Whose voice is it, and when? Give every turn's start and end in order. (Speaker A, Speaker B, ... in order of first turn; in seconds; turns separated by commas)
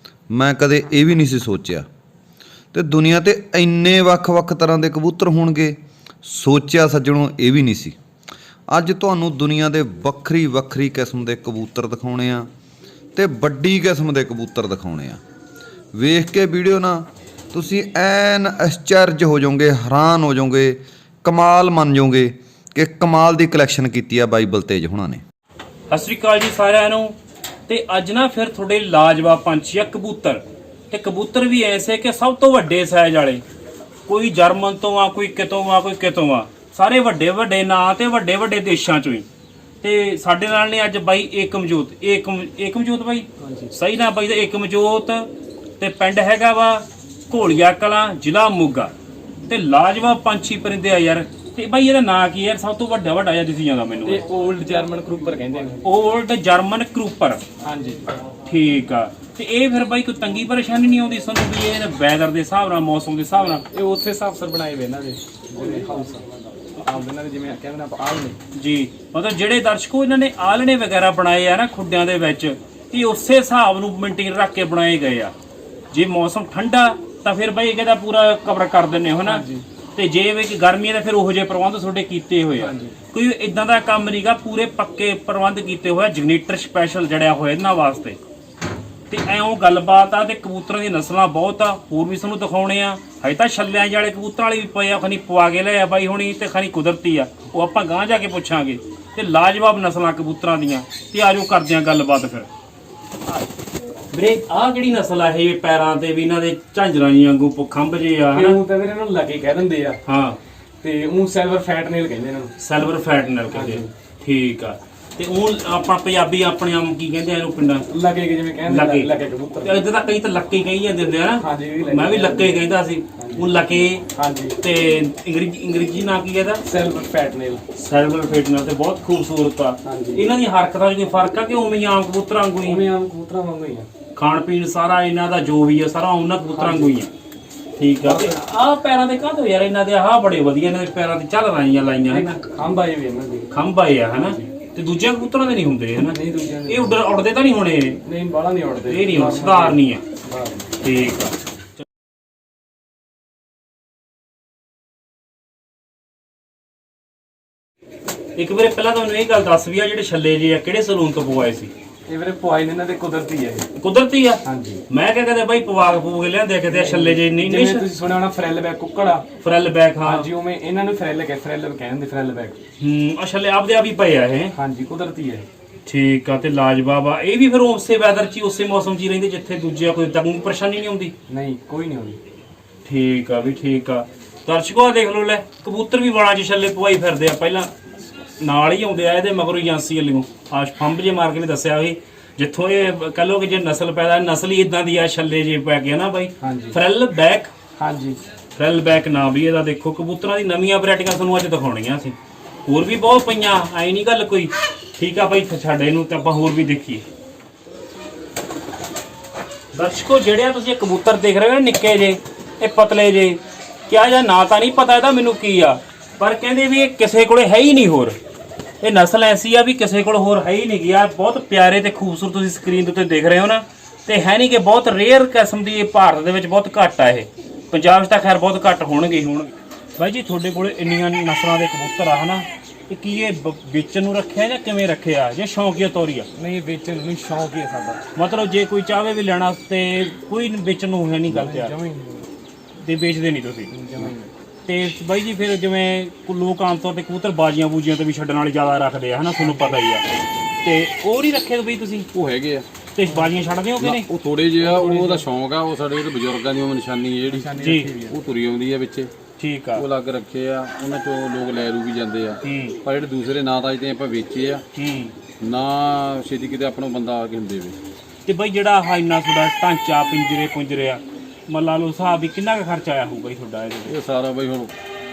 Speaker A: 0.3-1.8, Speaker A: 2.7-8.0, Speaker A: 8.7-12.5, Speaker A: 13.2-15.2, Speaker A: 15.9-25.2, Speaker B: 25.9-27.1, Speaker B: 27.7-33.4, Speaker B: 34.0-39.2, Speaker B: 39.8-48.9, Speaker C: 43.4-43.7, Speaker B: 49.5-54.2, Speaker C: 54.0-55.9, Speaker B: 55.8-57.4, Speaker C: 57.6-58.1, Speaker B: 58.4-63.6, Speaker C: 63.7-66.2, Speaker C: 66.8-68.4, Speaker B: 68.5-75.3, Speaker B: 75.9-88.2, Speaker C: 79.2-79.6, Speaker C: 82.6-83.0, Speaker B: 89.1-102.5, Speaker B: 104.1-108.6, Speaker C: 108.3-110.0, Speaker B: 110.0-110.4, Speaker C: 110.8-112.5, Speaker B: 112.6-117.8, Speaker C: 113.5-113.9, Speaker C: 117.9-119.8, Speaker B: 118.7-119.1, Speaker B: 119.6-124.0, Speaker C: 121.4-123.5, Speaker C: 124.1-124.5, Speaker B: 124.6-126.6, Speaker C: 126.6-127.6, Speaker B: 127.8-132.8, Speaker C: 129.8-130.2, Speaker C: 132.6-133.9, Speaker B: 134.1-137.1, Speaker C: 136.5-137.0, Speaker B: 137.8-142.3, Speaker C: 138.0-138.3, Speaker C: 142.1-143.5, Speaker B: 143.5-148.0, Speaker C: 146.0-147.0, Speaker C: 148.0-150.7, Speaker B: 148.9-150.0, Speaker B: 150.8-151.4, Speaker B: 158.4-161.7, Speaker C: 162.1-163.7, Speaker B: 163.8-167.9, Speaker C: 164.4-164.8, Speaker C: 166.7-169.2, Speaker B: 169.4-170.3, Speaker C: 170.0-172.6, Speaker B: 172.8-174.5, Speaker C: 174.5-175.5, Speaker B: 175.8-181.1, Speaker C: 181.3-182.2, Speaker B: 182.8-187.7, Speaker B: 188.4-197.5, Speaker C: 196.4-196.8, Speaker C: 197.8-198.2, Speaker B: 198.5-207.0, Speaker B: 209.7-218.2, Speaker B: 218.8-236.3, Speaker C: 236.3-238.0, Speaker B: 238.1-241.7, Speaker C: 241.3-242.3, Speaker B: 242.8-243.7, Speaker C: 243.7-244.3, Speaker B: 244.7-250.0, Speaker C: 249.4-249.8, Speaker B: 250.6-252.1, Speaker D: 252.1-252.7, Speaker B: 252.9-254.1, Speaker D: 253.8-259.1, Speaker C: 254.6-255.2, Speaker C: 257.3-258.2, Speaker B: 257.6-257.9, Speaker B: 259.4-259.8, Speaker D: 259.7-264.6, Speaker B: 262.4-262.8, Speaker B: 264.7-265.1, Speaker D: 265.4-267.8, Speaker B: 268.2-273.9, Speaker D: 273.9-274.7